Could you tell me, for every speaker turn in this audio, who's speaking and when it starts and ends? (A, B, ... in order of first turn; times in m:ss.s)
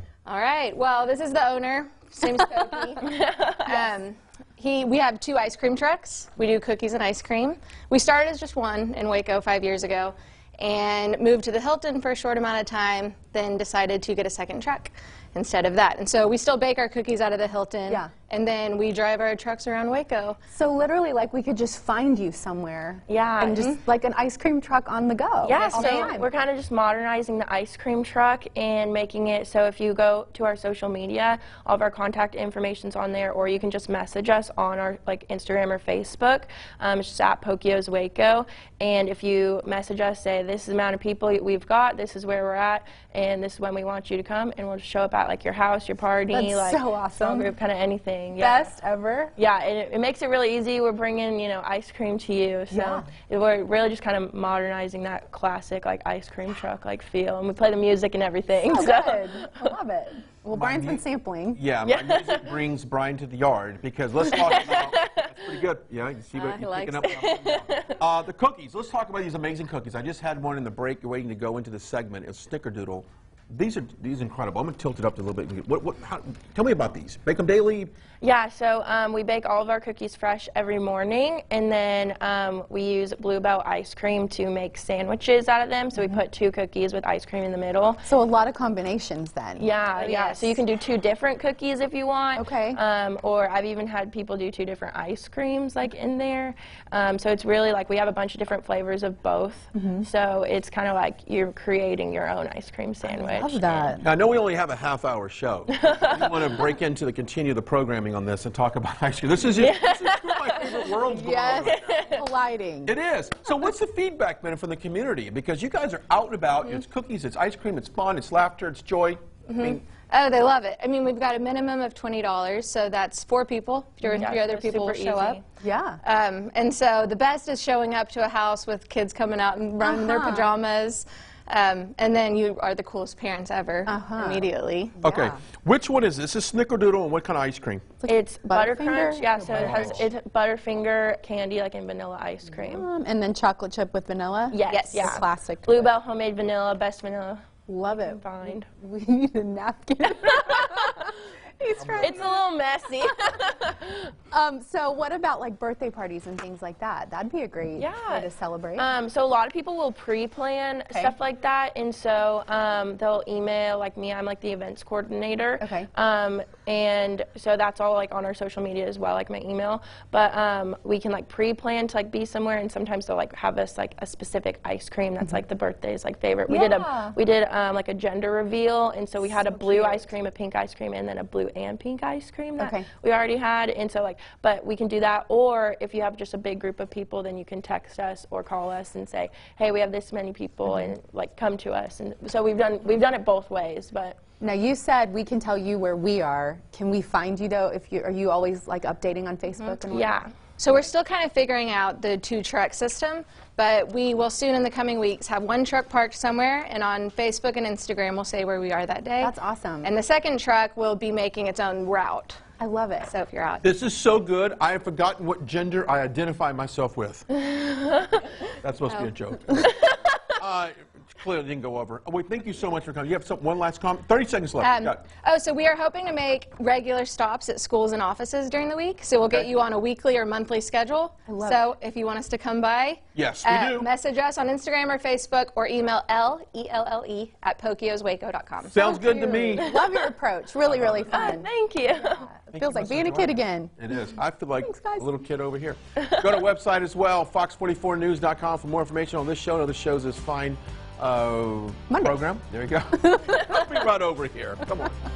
0:00.3-0:20.4 A
0:03.0-0:03.9 B
0:20.5-0:26.3 C
0:23.1-0:23.7 B
0:25.4-0:48.7 B
0:25.5-0:26.1 A
0:46.3-0:47.5 C
0:48.4-0:49.3 C
0:49.4-0:59.7 B
0:52.7-0:53.1 C
0:58.6-1:01.6 C
1:00.5-1:17.9 D
1:01.9-1:02.5 B
1:04.2-1:05.6 B
1:06.3-1:08.0 B
1:18.2-1:28.0 B
1:28.1-1:29.7 C
1:29.6-1:44.0 B
1:30.0-1:30.6 A
1:32.4-1:32.8 C
1:39.8-1:40.1 C
1:43.0-1:44.0 C
1:44.0-1:52.2 D
1:45.8-1:46.7 B
1:49.6-1:51.0 B
1:51.0-1:53.0 C
1:51.6-1:52.2 B
1:52.9-1:59.8 D
1:59.5-2:05.4 A
2:04.1-2:05.4 B
2:05.6-2:06.0 C
2:06.0-2:15.0 A
2:09.8-2:10.5 C
2:13.9-2:15.4 C
2:15.0-2:17.9 D
2:18.0-2:20.1 C
2:18.1-2:22.9 B
2:19.5-2:20.1 D
2:22.5-2:25.9 C
2:24.5-2:28.7 B
2:24.7-2:25.2 A
2:27.7-2:32.4 C
2:30.2-2:30.8 B
2:31.8-2:32.2 D
2:32.0-2:34.1 B
2:34.3-2:38.9 C
2:37.8-3:14.2 B
2:40.9-2:41.2 C
2:45.6-2:45.9 C
2:56.5-2:57.2 C
2:59.2-3:00.1 C
3:02.6-3:02.9 C
3:10.7-3:10.9 C
3:14.4-3:20.2 C
3:19.9-3:20.3 B
3:20.6-3:32.4 A
3:29.2-3:29.9 C
3:32.6-3:33.1 C
3:33.0-3:33.6 A
3:33.6-3:37.3 D
3:37.4-3:38.3 B
3:38.6-3:45.0 D
3:38.9-3:39.1 A
3:39.7-3:40.2 B
3:44.6-3:59.0 A
3:51.3-3:51.6 C
3:53.1-3:53.9 D
3:58.7-3:59.7 D
3:58.8-4:05.1 C
3:59.5-4:00.1 B
4:00.7-4:01.2 D
4:01.1-4:02.3 B
4:02.5-4:15.0 D
4:06.0-4:06.3 B
4:11.9-4:12.2 C
4:13.0-4:13.7 C